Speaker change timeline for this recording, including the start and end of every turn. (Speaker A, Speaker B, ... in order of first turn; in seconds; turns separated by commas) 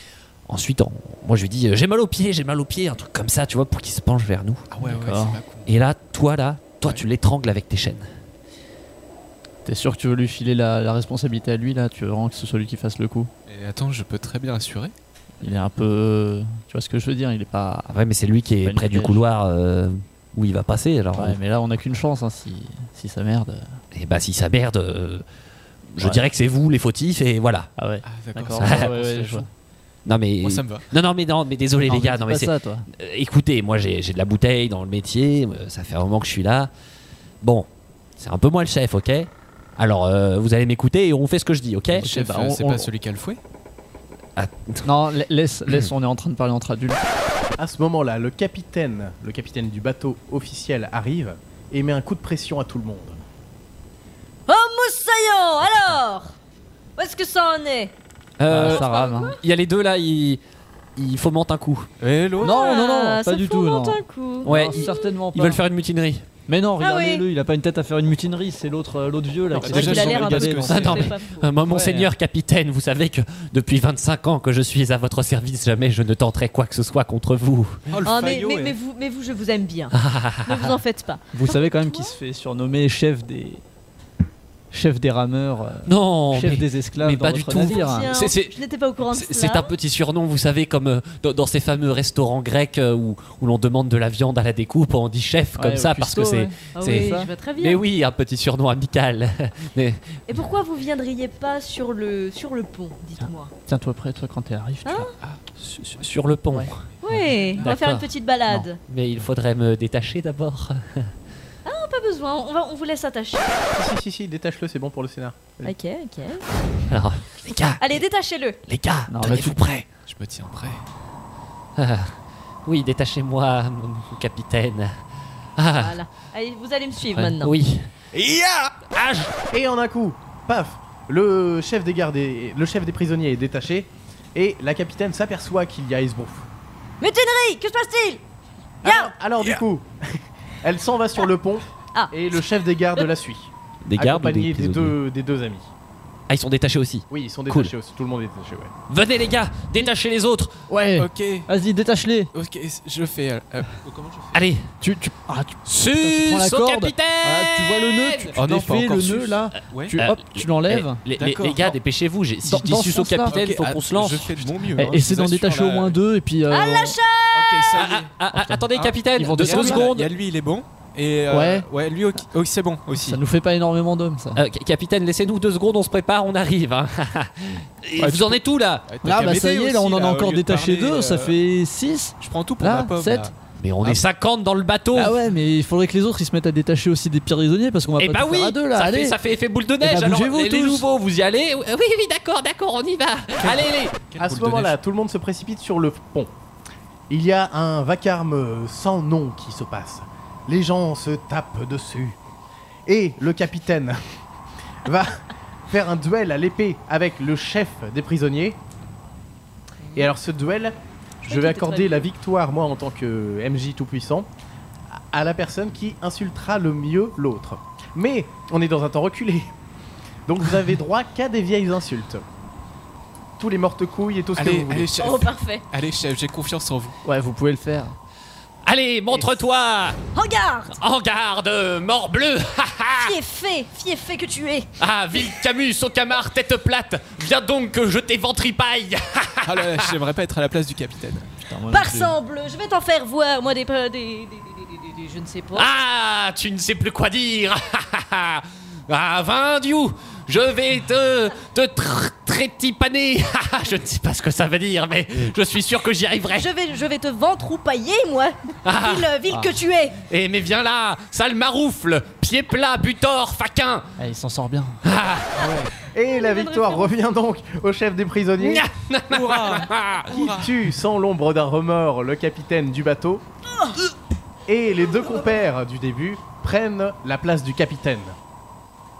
Speaker A: 0.5-4.7, Speaker B: 4.7-5.7, Speaker C: 4.8-5.4, Speaker A: 5.7-8.1, Speaker C: 9.6-13.3, Speaker B: 13.5-14.9, Speaker C: 15.4-18.0, Speaker A: 17.9-21.4, Speaker C: 18.6-19.2, Speaker C: 21.1-23.8, Speaker A: 23.9-25.2, Speaker A: 25.9-27.7, Speaker C: 27.8-29.5, Speaker B: 28.0-29.5, Speaker A: 28.6-29.0, Speaker A: 30.1-36.7, Speaker B: 30.4-30.8, Speaker C: 31.8-32.9, Speaker A: 37.4-37.7, Speaker A: 38.2-42.1, Speaker C: 42.0-42.9, Speaker B: 42.0-43.4, Speaker A: 44.4-44.9, Speaker C: 44.8-47.0, Speaker D: 47.6-53.2, Speaker E: 54.5-56.3, Speaker E: 57.0-57.9, Speaker A: 58.4-60.4, Speaker C: 58.5-59.4, Speaker E: 58.6-59.4, Speaker A: 61.0-61.9, Speaker B: 62.0-62.7, Speaker E: 62.4-65.1, Speaker C: 62.4-65.6, Speaker A: 64.4-66.2, Speaker C: 66.5-71.0, Speaker E: 66.8-67.2, Speaker B: 69.5-71.1, Speaker E: 69.5-71.5, Speaker A: 70.7-77.9, Speaker C: 71.7-72.1, Speaker B: 77.9-78.8, Speaker E: 78.0-82.2, Speaker A: 79.9-80.8, Speaker C: 81.3-83.6, Speaker C: 84.7-88.1, Speaker A: 85.8-88.5, Speaker E: 87.5-89.7, Speaker A: 89.1-100.2, Speaker C: 95.5-97.3, Speaker E: 96.7-97.8, Speaker E: 100.3-103.5, Speaker C: 103.2-105.1, Speaker E: 104.8-105.1, Speaker A: 105.6-106.8, Speaker C: 106.5-108.7, Speaker E: 107.0-108.8, Speaker B: 107.3-107.7, Speaker A: 108.9-111.1, Speaker E: 111.6-113.7, Speaker D: 113.7-115.6, Speaker E: 115.6-116.4, Speaker A: 116.9-117.8, Speaker E: 117.8-118.6, Speaker A: 118.7-119.8, Speaker C: 119.1-119.6, Speaker B: 120.0-120.8, Speaker A: 121.8-122.1, Speaker A: 122.7-125.0, Speaker A: 125.5-126.0, Speaker E: 125.8-127.5, Speaker A: 127.0-127.9, Speaker A: 128.9-129.3, Speaker D: 129.5-136.5, Speaker E: 137.0-138.2, Speaker E: 138.8-139.1, Speaker D: 138.8-145.7, Speaker A: 143.8-145.0, Speaker A: 146.3-147.7, Speaker D: 147.1-148.7, Speaker A: 148.9-150.6, Speaker C: 150.7-152.3, Speaker B: 150.9-151.5, Speaker B: 152.3-154.4, Speaker A: 154.3-154.7, Speaker C: 154.8-161.0, Speaker A: 155.7-158.3, Speaker B: 158.3-160.0, Speaker A: 159.9-164.7, Speaker B: 161.2-161.8, Speaker C: 162.4-163.4, Speaker B: 163.3-166.0, Speaker C: 164.8-167.0, Speaker E: 166.5-167.8, Speaker B: 167.3-168.1, Speaker A: 167.7-170.1, Speaker C: 168.3-169.9, Speaker B: 168.7-173.2, Speaker C: 171.3-171.7, Speaker C: 172.9-174.4, Speaker A: 174.3-178.9, Speaker C: 178.0-178.4, Speaker B: 178.9-181.3, Speaker C: 179.0-183.3, Speaker B: 182.2-184.0, Speaker A: 183.6-185.2, Speaker C: 184.9-189.2, Speaker A: 188.0-193.9, Speaker C: 189.8-190.9, Speaker B: 193.4-194.8, Speaker D: 194.2-196.3, Speaker D: 197.1-202.2, Speaker D: 202.8-204.0, Speaker D: 204.8-208.6, Speaker D: 209.9-214.3, Speaker E: 211.2-212.1, Speaker D: 214.9-219.5, Speaker D: 220.3-222.2, Speaker D: 223.4-224.9, Speaker B: 224.3-226.9, Speaker E: 225.0-225.6, Speaker C: 227.0-228.0, Speaker A: 228.6-230.0, Speaker E: 230.1-230.8, Speaker A: 230.8-233.1, Speaker E: 232.9-234.7, Speaker A: 234.8-239.9, Speaker B: 239.4-241.3, Speaker C: 241.4-242.2, Speaker E: 241.7-245.7, Speaker A: 245.5-256.5, Speaker E: 256.3-260.0, Speaker A: 258.6-259.1, Speaker A: 260.0-263.9, Speaker C: 264.0-264.8, Speaker A: 264.8-265.6, Speaker E: 265.4-266.9, Speaker D: 265.4-268.6, Speaker A: 268.4-270.3, Speaker B: 269.1-270.5, Speaker D: 270.1-273.2, Speaker D: 274.5-278.1